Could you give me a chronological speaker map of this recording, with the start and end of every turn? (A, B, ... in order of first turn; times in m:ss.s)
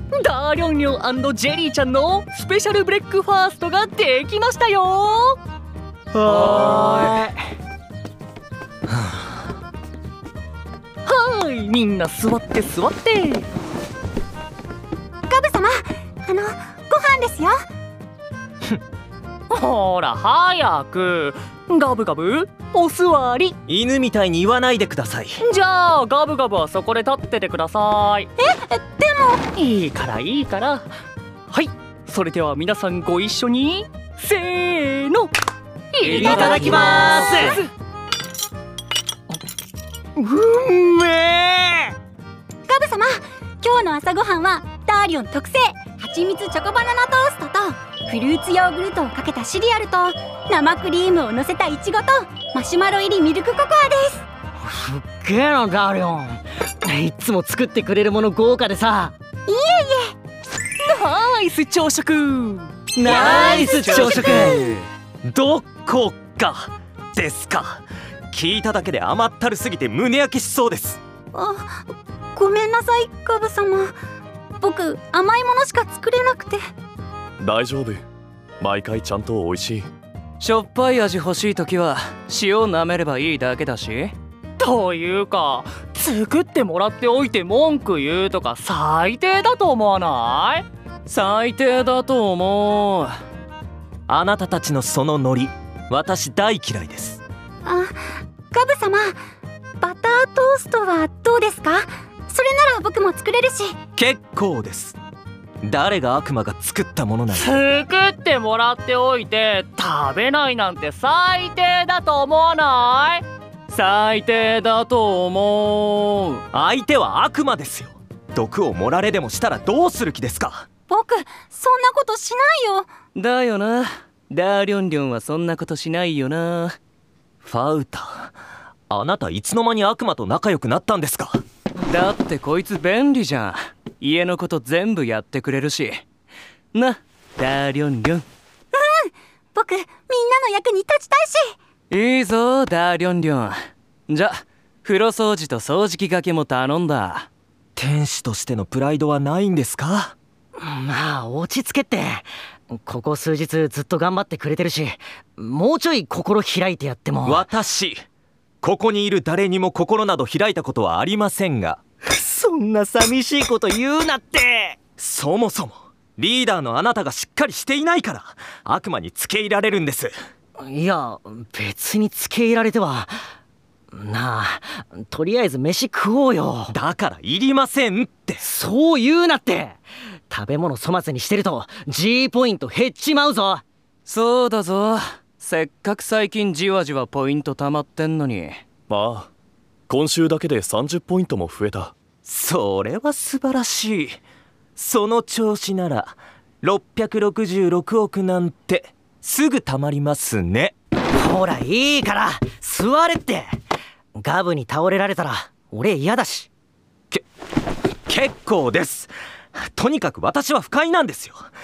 0:00.1-0:05.4 A
0:06.1-0:07.3 B
0:06.7-0:07.0 A
0:11.0-0:13.5 A
0:15.3-0:17.6 C
0:19.5-0:23.6 A
0:23.7-0:25.4 D
0:25.4-0:28.3 A
0:28.4-0:29.4 C
0:29.6-0:30.8 A
0:31.5-0:35.3 A
0:35.9-0:37.7 A
0:36.0-0:37.6 B
0:40.2-0:41.9 B
0:42.7-0:54.2 C
0:54.6-0:59.1 B
0:59.5-1:00.1 C
1:00.9-1:02.8 A
1:02.9-1:04.7 B
1:03.0-1:04.8 E
1:03.2-1:04.5 C
1:03.8-1:04.5 D
1:05.2-1:11.0 D
1:11.3-1:11.8 C
1:12.3-1:13.9 C
1:14.6-1:16.6 C
1:17.4-1:18.0 F
1:18.6-1:19.9 F
1:20.4-1:24.1 E
1:24.6-1:30.6 A
1:31.1-1:33.2 E
1:34.1-1:37.2 D
1:37.6-1:38.0 C
1:38.5-1:39.2 C
1:39.8-1:43.8 C
1:44.0-1:45.0 D
1:45.6-1:47.6 D
1:47.3-1:53.2 A
1:53.7-1:56.4 E
1:56.5-2:00.7 D
2:00.9-2:02.9 C
2:03.1-2:06.8 E
2:07.4-2:08.3 D
2:08.9-2:11.4 D
2:11.8-2:16.0 E
2:16.7-2:18.2 E
2:18.7-2:21.6 C
2:21.9-2:27.3 E
2:27.8-2:30.1 D
2:30.6-2:37.4 B
2:37.2-2:38.0 D
2:38.6-2:41.8 D
2:42.0-2:44.8 B
2:44.9-2:50.1 D
2:50.6-2:53.1 B
2:53.9-2:56.7 B
2:56.7-2:58.4 D
2:58.4-3:03.6 B
3:04.1-3:08.6 E
3:08.9-3:09.3 F
3:09.9-3:11.9 F
3:12.2-3:14.2 D
3:14.8-3:20.7 D
3:21.1-3:23.6 B
3:24.1-3:26.5 B
3:28.1-3:31.4 D